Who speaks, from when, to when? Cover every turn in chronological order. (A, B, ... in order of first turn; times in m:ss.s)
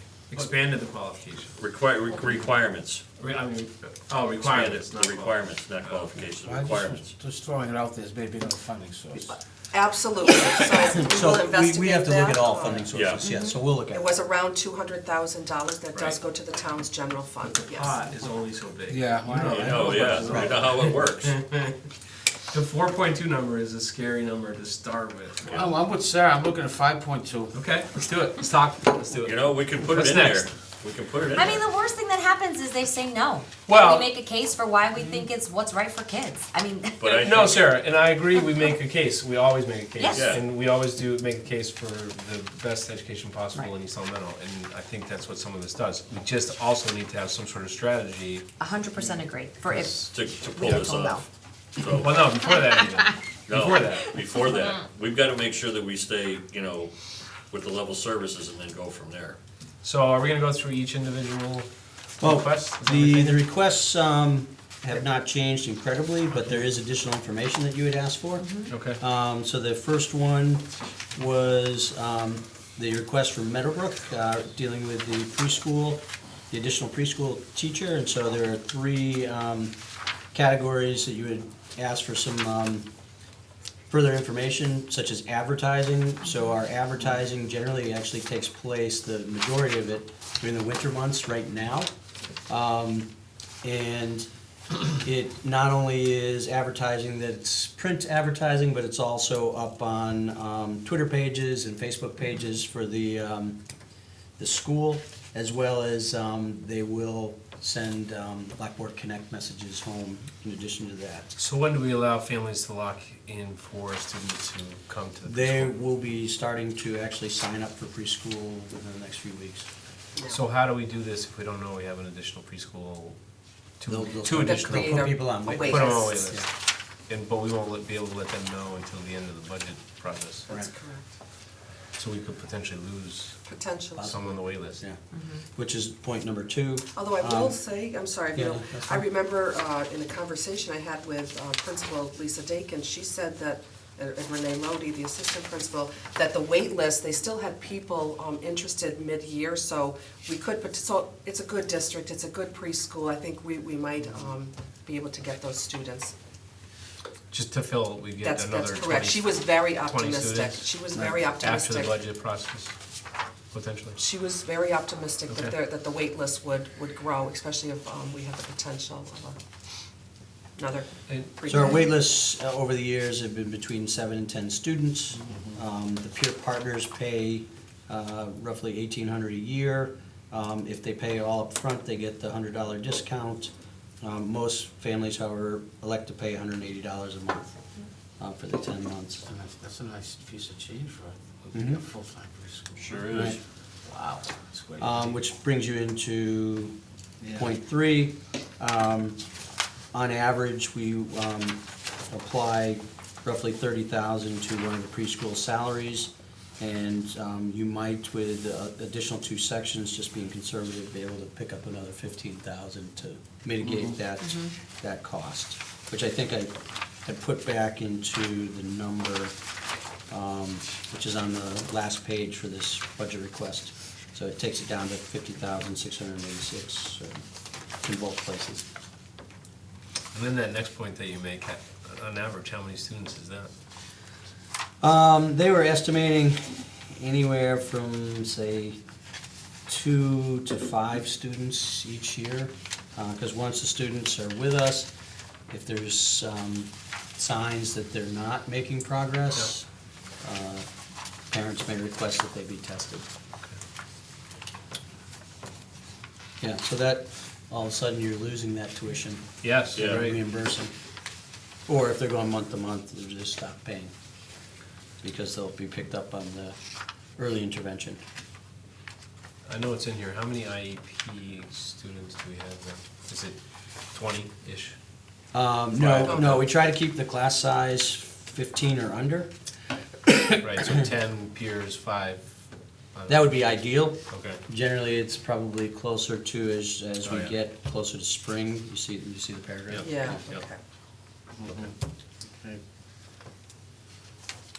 0:00.3-0:01.6 A
0:01.6-0:03.0 B
0:02.1-0:02.5 A
0:03.2-0:06.3 A
0:04.4-0:07.1 B
0:06.4-0:09.4 C
0:09.3-0:12.9 D
0:10.9-0:14.1 E
0:12.9-0:13.2 B
0:13.2-0:13.6 F
0:13.9-0:18.1 D
0:15.9-0:16.2 A
0:17.4-0:21.8 A
0:18.9-0:20.5 C
0:19.4-0:21.4 B
0:20.3-0:20.6 E
0:22.5-0:25.7 A
0:25.5-0:27.6 C
0:27.5-0:30.5 A
0:29.2-0:31.6 B
0:31.4-0:37.0 F
0:33.7-0:34.1 A
0:37.0-0:37.7 B
0:37.1-0:48.5 A
0:40.1-0:40.4 B
0:48.6-0:50.0 F
0:49.7-0:50.0 A
0:50.0-0:52.2 B
0:50.5-0:51.2 F
0:51.8-0:54.2 A
0:53.5-0:56.9 B
0:57.5-0:59.4 B
0:59.8-1:01.7 A
1:02.2-1:03.4 A
1:02.2-1:19.7 E
1:08.4-1:08.7 F
1:08.7-1:09.0 A
1:20.3-1:22.8 E
1:23.9-1:31.9 E
1:32.5-1:33.1 E
1:33.6-1:34.3 E
1:35.0-1:43.6 E
1:44.4-1:51.3 E
1:51.4-1:55.7 A
1:55.2-1:59.7 E
2:00.2-2:00.4 D
2:00.3-2:03.2 A
2:03.8-2:06.5 A
2:03.8-2:06.5 E
2:04.4-2:06.2 D
2:07.1-2:10.4 A
2:10.5-2:11.0 D
2:11.9-2:13.4 A
2:13.4-2:14.2 D
2:14.0-2:14.8 A
2:14.0-2:15.0 E
2:15.5-2:17.6 E
2:16.9-2:36.1 D
2:18.3-2:19.1 E
2:37.3-2:42.8 A
2:38.2-2:42.0 D
2:43.5-2:44.0 A
2:44.0-2:49.4 D
2:45.3-2:45.5 A
2:50.6-2:51.8 D
2:51.1-2:51.4 A
2:51.5-3:03.5 E
3:04.0-3:07.5 E
3:08.2-3:09.2 E
3:09.2-3:13.3 C
3:11.5-3:11.8 E
3:12.8-3:13.4 B
3:13.9-3:15.2 C
3:14.8-3:16.8 E
3:17.2-3:17.6 C
3:17.3-3:19.2 E
3:19.9-3:36.5 E
3:37.0-3:39.3 E
3:40.1-3:47.2 E
3:47.8-3:48.6 E
3:50.1-3:53.5 A
3:54.8-3:58.8 E
3:59.7-4:04.9 E
4:05.5-4:09.7 E
4:10.2-4:10.7 E
4:11.3-4:13.1 E
4:16.4-4:20.7 E
4:19.4-4:20.2 A
4:19.8-4:20.1 B
4:21.7-4:23.9 E
4:25.0-4:26.6 E
4:27.2-4:28.0 E
4:29.4-4:33.4 A
4:33.9-4:34.8 A
4:35.3-4:39.3 E
4:35.7-4:36.4 A
4:36.0-4:36.4 D
4:40.1-4:40.4 E
4:40.4-4:42.2 A
4:42.9-4:43.3 A
4:43.1-4:50.2 E
4:44.1-4:44.4 A
4:47.0-4:47.3 B
4:49.7-4:50.5 B
4:49.8-4:50.6 D
4:51.4-4:51.7 C